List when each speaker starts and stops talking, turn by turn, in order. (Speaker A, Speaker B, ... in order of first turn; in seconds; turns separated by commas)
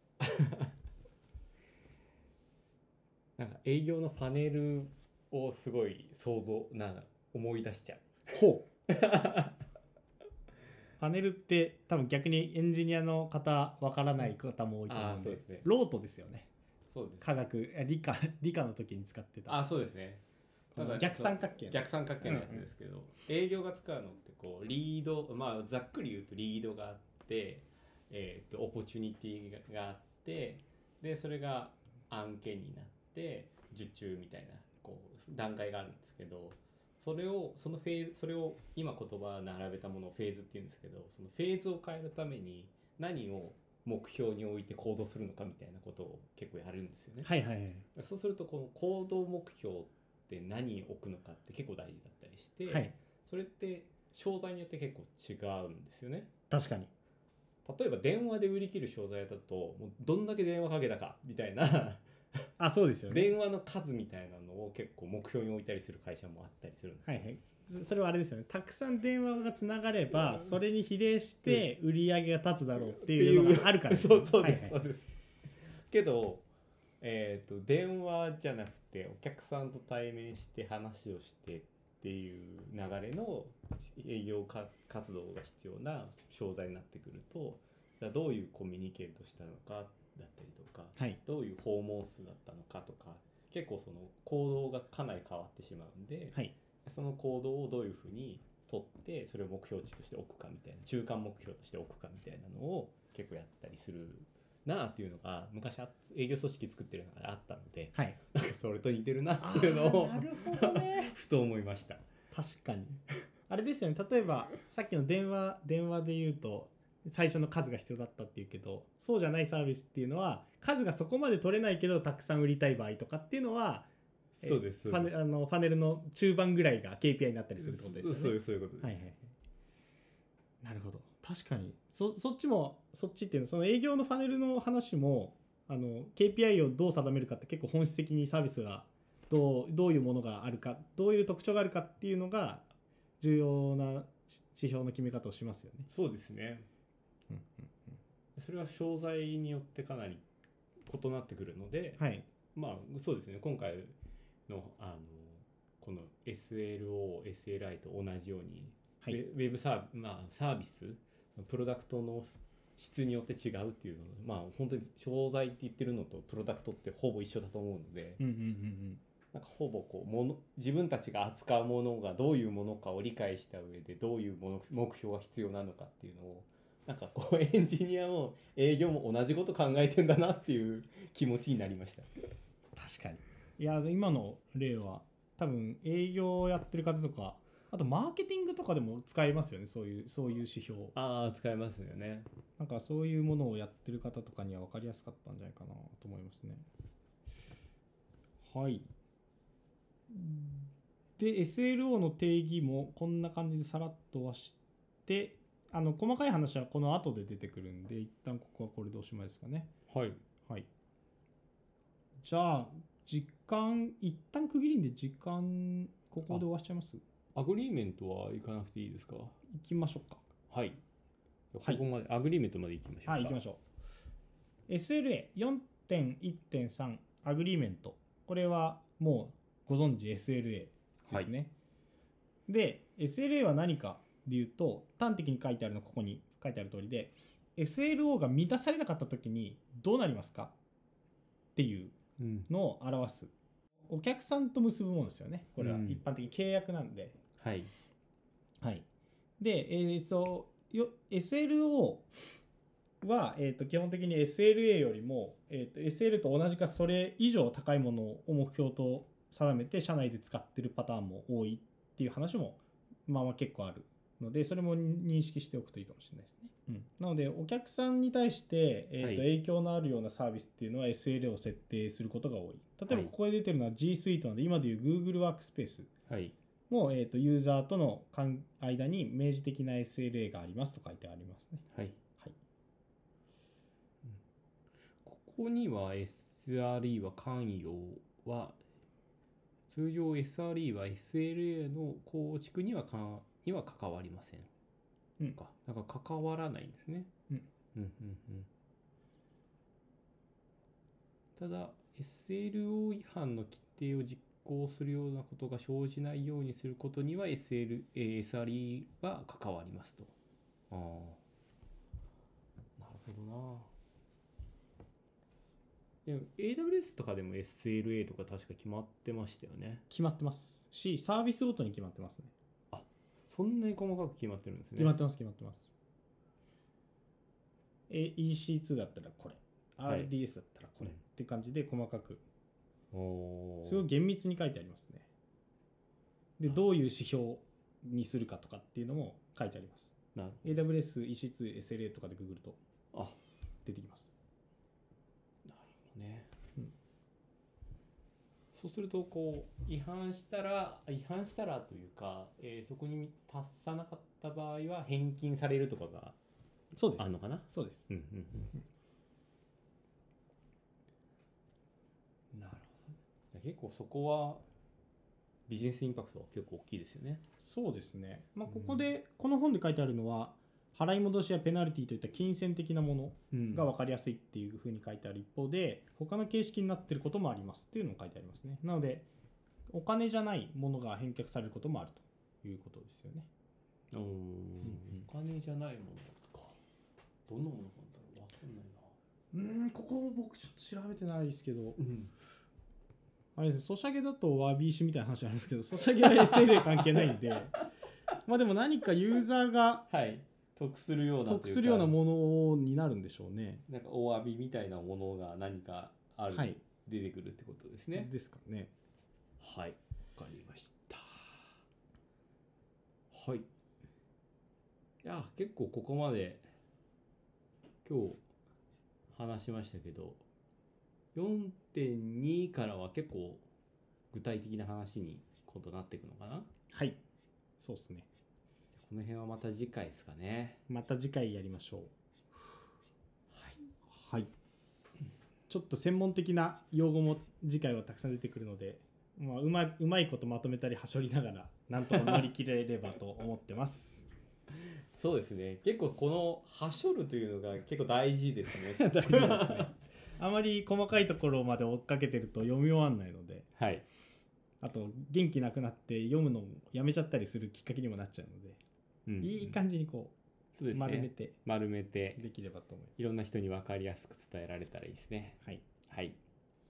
Speaker A: 0.2-0.7, Speaker A: 3.4-8.2, Speaker B: 8.3-8.7, Speaker A: 8.9-9.6, Speaker B: 11.0-16.5, Speaker A: 14.9-15.6, Speaker A: 16.9-17.3, Speaker B: 17.2-19.6, Speaker A: 19.5-20.2, Speaker A: 20.7-47.3, Speaker B: 20.8-22.7, Speaker B: 47.2-47.9, Speaker A: 47.9-56.3, Speaker B: 52.7-52.9, Speaker B: 56.5-56.9, Speaker A: 57.6-62.4, Speaker B: 62.6-63.3, Speaker A: 63.1-67.2, Speaker B: 67.0-74.8, Speaker A: 72.9-75.1, Speaker A: 75.7-76.4, Speaker A: 77.0-112.0, Speaker B: 109.4-111.1, Speaker B: 112.3-123.9, Speaker A: 124.3-125.1, Speaker B: 124.4-129.2, Speaker A: 127.6-129.0, Speaker B: 130.6-142.7, Speaker B: 143.2-145.9, Speaker A: 145.9-146.7, Speaker B: 147.3-148.0, Speaker A: 148.3-150.2, Speaker A: 150.8-152.0, Speaker B: 152.0-152.2, Speaker A: 152.5-153.9, Speaker A: 154.5-168.2, Speaker B: 168.2-169.0, Speaker A: 169.3-182.2, Speaker B: 182.8-190.9, Speaker A: 190.9-192.3, Speaker B: 192.6-196.6, Speaker B: 198.4-198.8, Speaker B: 200.1-209.7, Speaker A: 209.9-210.2, Speaker B: 212.2-217.0, Speaker A: 217.3-219.3, Speaker B: 219.5-220.2, Speaker A: 220.5-220.8, Speaker A: 221.5-223.3, Speaker B: 223.1-223.6, Speaker B: 224.7-231.5, Speaker B: 232.5-240.5, Speaker B: 241.6-241.9, Speaker A: 242.2-242.5, Speaker B: 242.5-243.3, Speaker B: 243.9-247.2, Speaker A: 245.6-246.0, Speaker A: 247.4-247.7, Speaker B: 249.4-252.1, Speaker B: 253.0-275.9, Speaker A: 269.0-269.3, Speaker A: 276.1-276.3, Speaker B: 276.7-281.6, Speaker A: 281.7-282.0, Speaker A: 285.0-288.6, Speaker A: 289.7-294.5, Speaker A: 295.3-297.1, Speaker A: 297.7-298.5, Speaker A: 301.4-310.1, Speaker A: 310.7-311.2, Speaker A: 312.8-313.7, Speaker A: 316.0-319.8, Speaker B: 319.9-322.3, Speaker A: 322.7-325.0, Speaker B: 324.8-325.7, Speaker B: 327.9-332.2, Speaker A: 332.9-333.9, Speaker B: 333.6-335.1, Speaker B: 336.4-342.6, Speaker A: 340.1-340.6, Speaker B: 343.6-344.1, Speaker A: 345.4-346.3, Speaker A: 348.5-356.2, Speaker B: 356.7-357.9, Speaker A: 357.0-358.5, Speaker A: 362.3-364.4, Speaker A: 365.5-367.2, Speaker B: 367.4-379.1, Speaker A: 368.5-368.8, Speaker A: 373.3-373.7, Speaker B: 379.7-383.3, Speaker A: 383.9-386.6, Speaker A: 387.3-388.9, Speaker B: 389.3-391.8, Speaker A: 391.8-392.1, Speaker B: 393.4-397.6, Speaker A: 395.9-397.4, Speaker B: 398.2-399.9, Speaker A: 399.9-401.9, Speaker B: 401.2-403.6, Speaker A: 403.7-408.1, Speaker B: 406.3-406.6, Speaker B: 407.9-408.7, Speaker A: 409.4-411.5, Speaker A: 413.1-413.5, Speaker A: 415.0-416.5, Speaker A: 417.8-418.2, Speaker A: 419.1-420.2, Speaker A: 421.1-423.4, Speaker A: 424.1-426.5, Speaker B: 426.7-427.0, Speaker B: 427.6-428.1, Speaker A: 428.7-430.6, Speaker B: 430.7-431.9, Speaker A: 433.3-433.6, Speaker B: 433.9-434.3, Speaker B: 435.5-444.0, Speaker A: 444.5-449.7, Speaker B: 448.7-453.5, Speaker A: 453.6-453.8, Speaker B: 454.6-458.6, Speaker A: 459.1-459.6, Speaker B: 459.2-460.1, Speaker A: 460.5-462.2, Speaker B: 460.7-461.4, Speaker B: 462.2-462.9, Speaker A: 463.0-466.2